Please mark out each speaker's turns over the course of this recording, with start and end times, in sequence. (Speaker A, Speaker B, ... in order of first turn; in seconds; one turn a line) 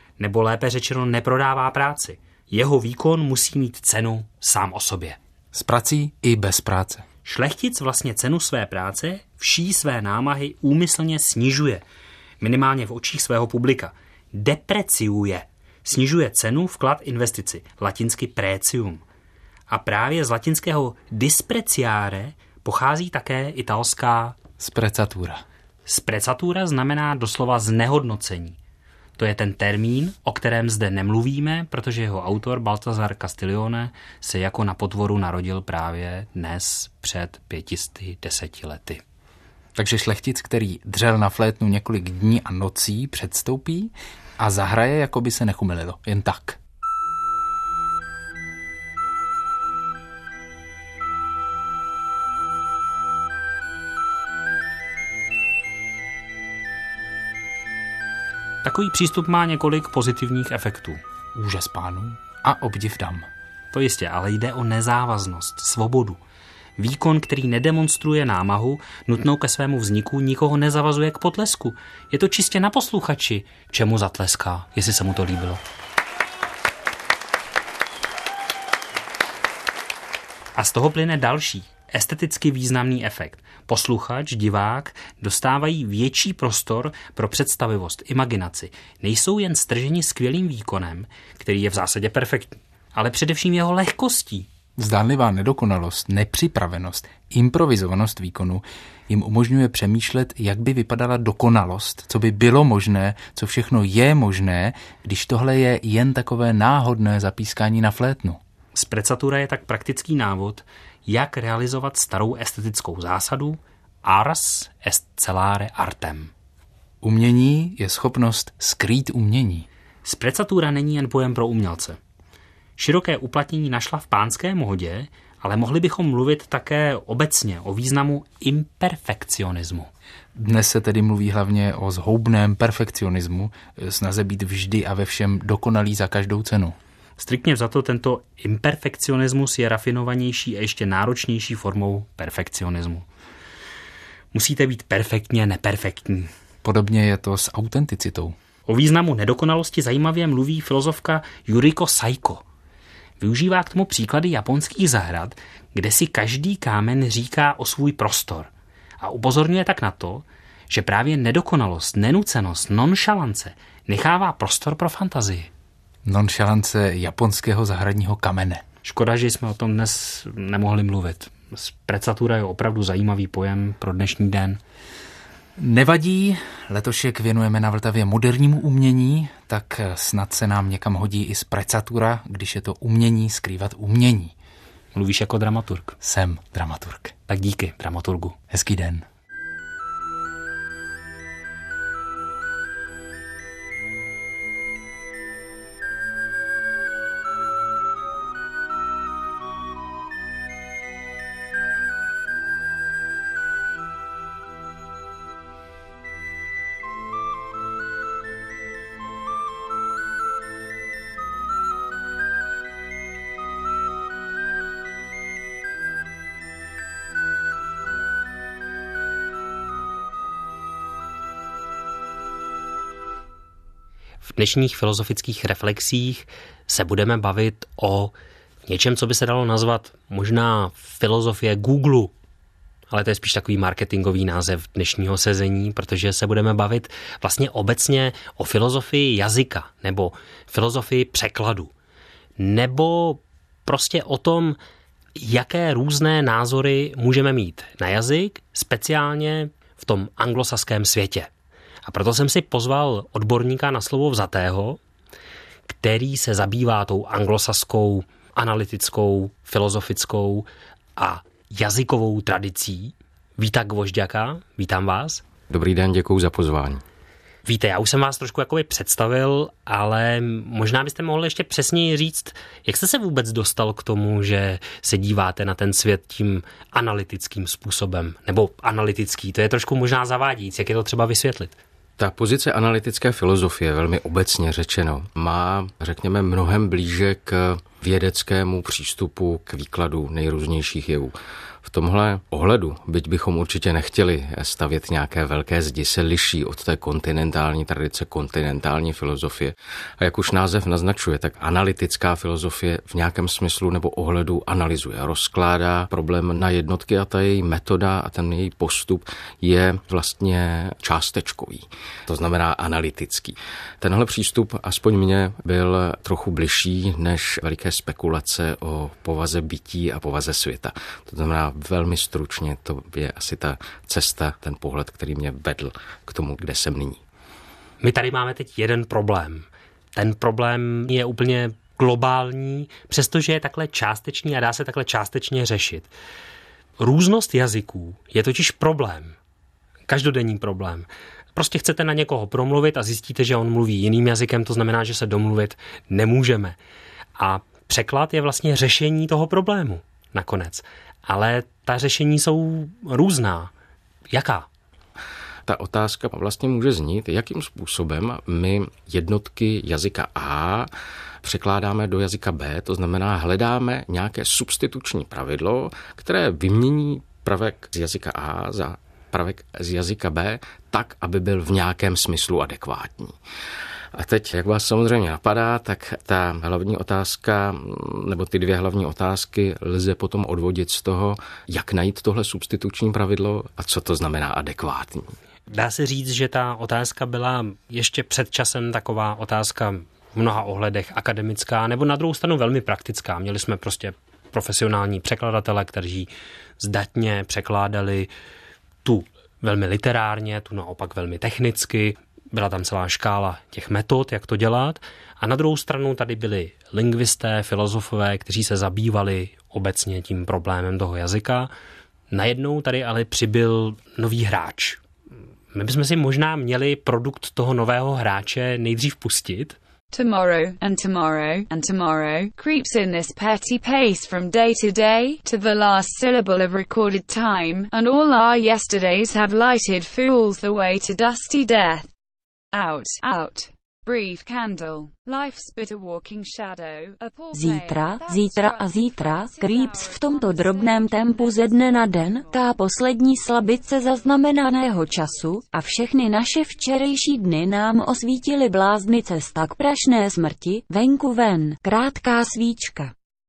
Speaker A: 0.2-5.2
Speaker B: 5.5-7.0
Speaker A: 7.2-11.8
Speaker A: 12.4-19.0
Speaker A: 19.7-24.3
Speaker B: 24.6-25.4
Speaker A: 25.9-28.6
Speaker A: 29.2-39.0
Speaker B: 39.7-46.6
Speaker A: 58.6-61.0
Speaker B: 61.3-63.3
Speaker A: 63.7-66.2
Speaker A: 66.8-75.6
Speaker A: 80.5-94.5
Speaker B: 94.8-108.4
Speaker A: 108.7-116.3
Speaker B: 117.0-119.7
Speaker A: 120.0-122.0
Speaker A: 122.8-129.9
Speaker B: 130.3-136.8
Speaker A: 137.2-143.0
Speaker A: 144.3-146.3
Speaker B: 146.6-148.3
Speaker A: 148.7-152.4
Speaker A: 153.2-158.5
Speaker A: 159.0-165.5
Speaker B: 166.0-168.6
Speaker A: 168.8-174.6
Speaker B: 175.6-184.3
Speaker A: 184.9-185.9
Speaker B: 186.0-187.1
Speaker A: 187.3-188.3
Speaker B: 188.5-189.1
Speaker A: 224.2-228.1
Speaker A: 228.7-232.1
Speaker A: 232.9-241.7
Speaker A: 242.4-244.6
Speaker A: 245.2-251.3
Speaker A: 251.8-254.8
Speaker A: 255.7-265.2
Speaker C: 265.5-266.8
Speaker A: 267.4-281.6
Speaker C: 282.0-327.0
Speaker A: 327.8-335.9
Speaker A: 336.8-339.1
Speaker A: 339.9-346.6
Speaker A: 347.2-353.5
Speaker A: 354.1-354.5
Speaker C: 355.5-360.7
Speaker C: 361.2-373.1
Speaker C: 373.9-385.1
Speaker A: 385.5-396.1
Speaker A: 396.6-398.1
Speaker A: 398.8-411.5
Speaker A: 412.1-414.8
Speaker A: 415.5-419.6
Speaker D: 419.9-431.9
Speaker D: 432.5-442.3
Speaker E: 437.3-452.9
Speaker D: 445.0-445.4